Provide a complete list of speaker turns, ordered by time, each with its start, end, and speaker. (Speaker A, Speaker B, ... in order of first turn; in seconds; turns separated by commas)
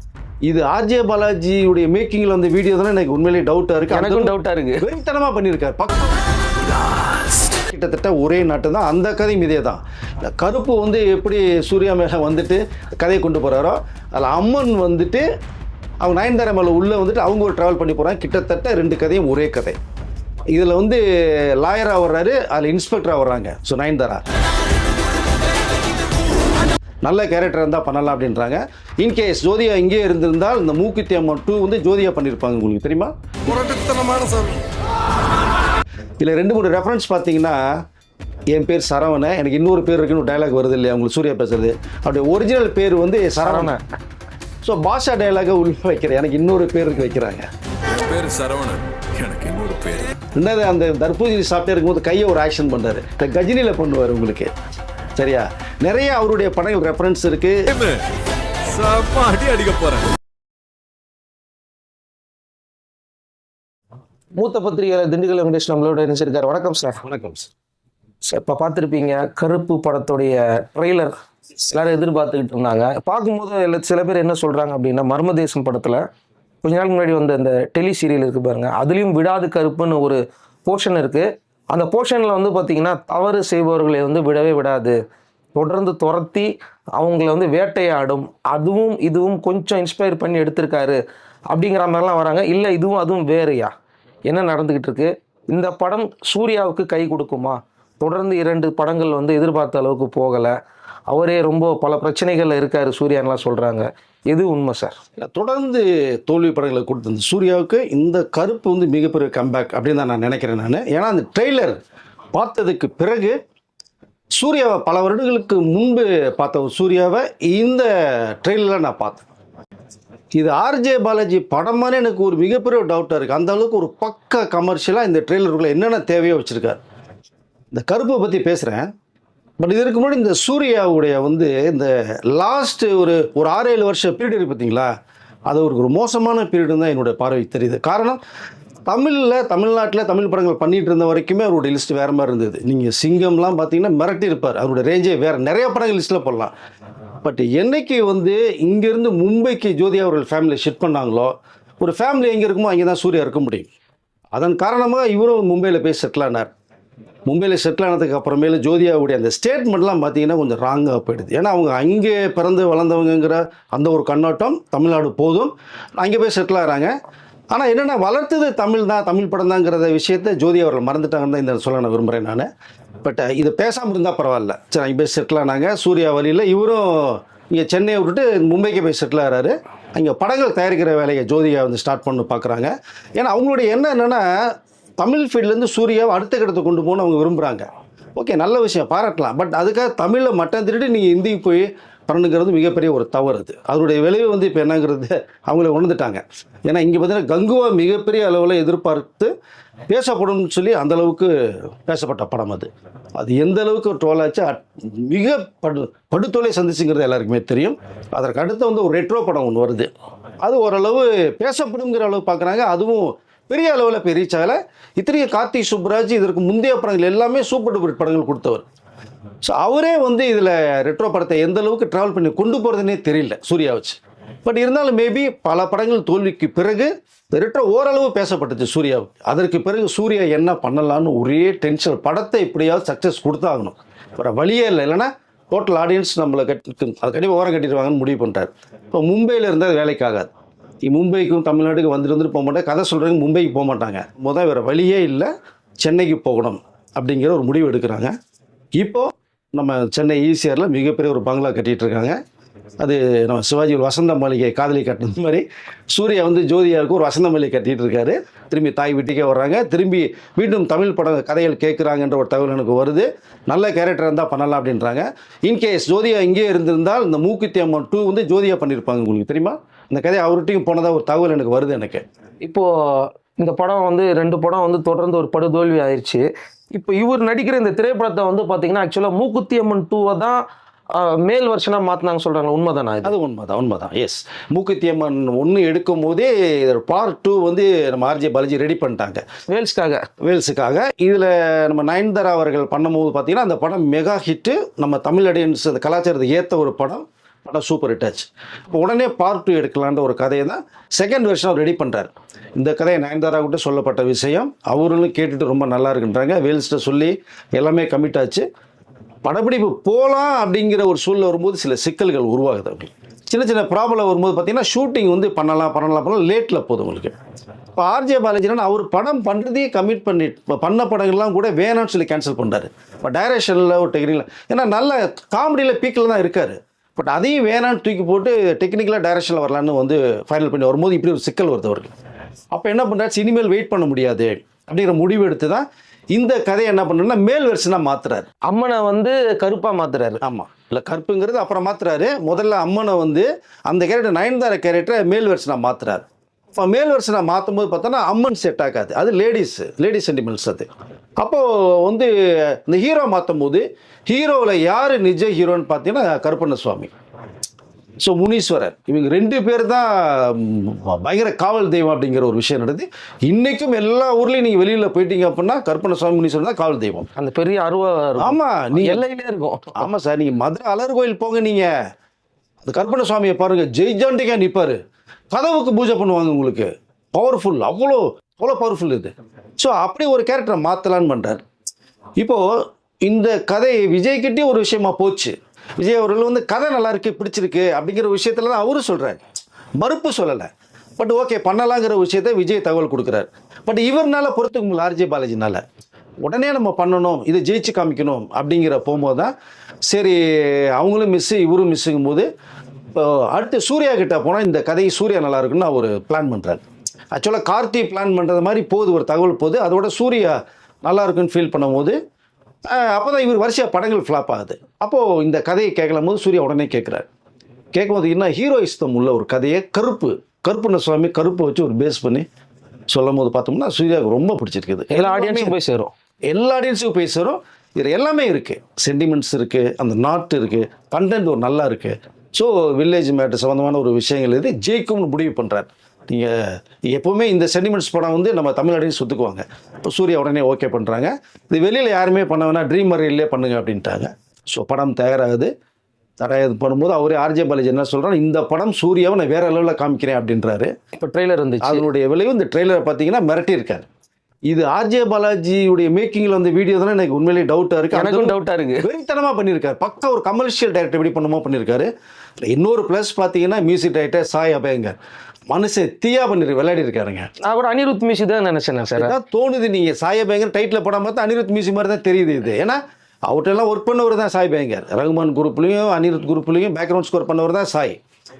Speaker A: 0.5-6.1, Speaker B: 3.9-4.8, Speaker A: 6.6-15.2, Speaker A: 16.0-19.8, Speaker A: 20.5-24.2, Speaker A: 27.0-33.1, Speaker A: 36.2-37.6, Speaker A: 38.5-43.7, Speaker B: 43.4-43.8, Speaker A: 44.6-47.5, Speaker C: 48.0-50.1, Speaker A: 50.4-54.5, Speaker A: 55.2-57.7, Speaker C: 58.7-60.1, Speaker B: 64.4-67.0, Speaker A: 67.0-67.5, Speaker B: 68.2-71.1, Speaker B: 71.7-76.0, Speaker B: 76.6-85.0, Speaker B: 85.5-91.0, Speaker B: 91.5-93.7, Speaker B: 94.3-100.5, Speaker B: 101.1-105.0, Speaker A: 105.2-111.8, Speaker A: 112.3-113.3, Speaker A: 114.4-117.9, Speaker A: 118.4-119.2, Speaker A: 120.3-126.8, Speaker A: 127.7-128.9, Speaker A: 129.6-134.9, Speaker A: 135.5-138.2, Speaker A: 138.9-146.5, Speaker A: 147.2-153.7, Speaker A: 154.3-156.5, Speaker A: 157.3-166.9, Speaker A: 167.5-172.5, Speaker A: 173.0-184.3, Speaker A: 185.0-199.3, Speaker A: 199.9-201.3, Speaker A: 201.8-209.9, Speaker A: 210.4-218.6, Speaker A: 219.4-240.3, Speaker A: 240.8-245.3, Speaker A: 245.8-248.1, Speaker A: 248.8-252.2, Speaker A: 252.8-272.0, Speaker B: 272.4-280.4, Speaker B: 280.9-283.1, Speaker A: 283.0-289.2, Speaker B: 289.5-290.1, Speaker A: 290.2-308.4, Speaker A: 309.2-317.1, Speaker A: 317.8-331.9, Speaker A: 332.5-338.3, Speaker B: 338.5-340.2, Speaker A: 340.2-350.7, Speaker A: 351.2-356.9, Speaker A: 358.0-367.1, Speaker B: 367.2-369.9, Speaker A: 368.2-369.0, Speaker A: 369.8-371.7, Speaker A: 372.6-374.8, Speaker A: 375.3-381.4, Speaker A: 382.2-382.5, Speaker A: 383.0-389.2, Speaker A: 389.8-395.6, Speaker A: 396.2-399.3, Speaker A: 399.9-402.3, Speaker A: 402.9-406.6, Speaker A: 407.1-412.0, Speaker A: 412.7-417.1, Speaker A: 417.7-422.2, Speaker A: 422.9-425.5, Speaker B: 424.9-425.9, Speaker A: 426.3-436.4, Speaker A: 436.9-445.5, Speaker A: 446.2-450.7, Speaker B: 450.9-451.8, Speaker A: 451.6-453.9, Speaker A: 454.5-461.9, Speaker B: 457.9-458.9, Speaker A: 462.4-464.9, Speaker A: 465.5-467.3, Speaker B: 467.4-469.1, Speaker A: 469.0-478.0